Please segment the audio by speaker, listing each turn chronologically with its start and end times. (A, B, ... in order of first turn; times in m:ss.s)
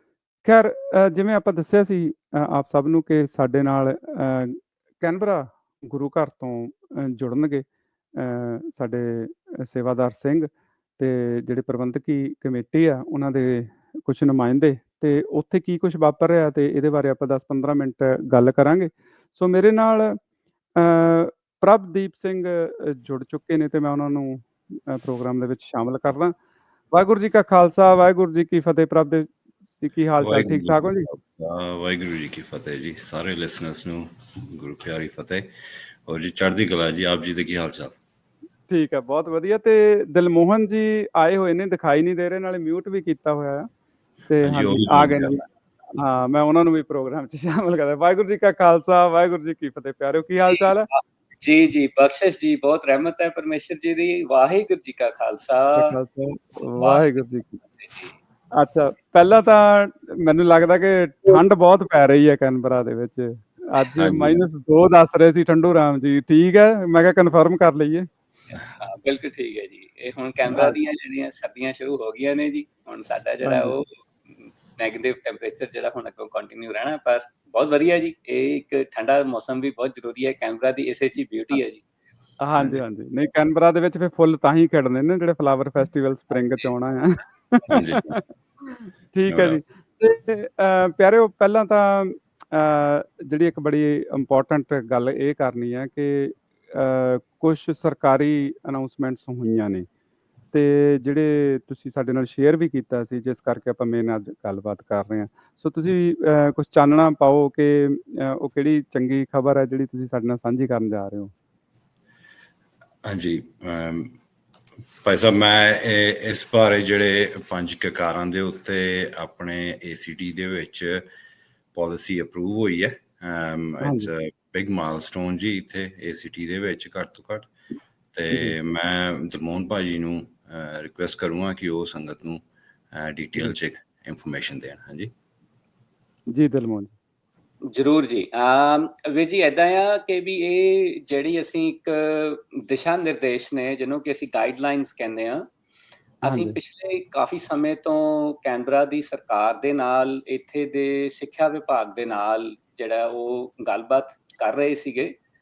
0:00.4-0:20.2 A
0:20.8-0:26.4 A
0:26.9-0:31.1 A
0:30.2-0:35.5 B
0:36.0-0:38.0 B
0:38.7-0:43.7 A
0:44.3-0:45.4 A
0:44.4-0:45.4 B
0:46.0-0:50.9 A
0:50.4-0:56.0 C
0:55.8-0:57.6 A
0:56.8-0:58.1 C
0:58.5-1:08.1 A
1:04.0-1:04.4 B
1:08.7-1:21.8 C
1:10.5-1:10.8 A
1:13.4-1:13.7 A
1:22.4-1:28.2 A
1:22.6-1:22.8 B
1:26.3-1:26.7 C
1:27.7-1:28.1 B
1:28.7-1:39.8 A
1:29.3-1:29.6 B
1:40.5-1:51.3 A
1:53.0-1:54.1 B
1:55.0-2:01.0 B
2:01.7-2:07.5 B
2:03.8-2:04.1 A
2:08.1-2:12.4 B
2:08.3-2:08.6 A
2:12.9-2:15.1 B
2:16.3-2:16.9 A
2:17.7-2:25.4 C
2:26.2-2:35.1 C
2:26.2-2:26.6 A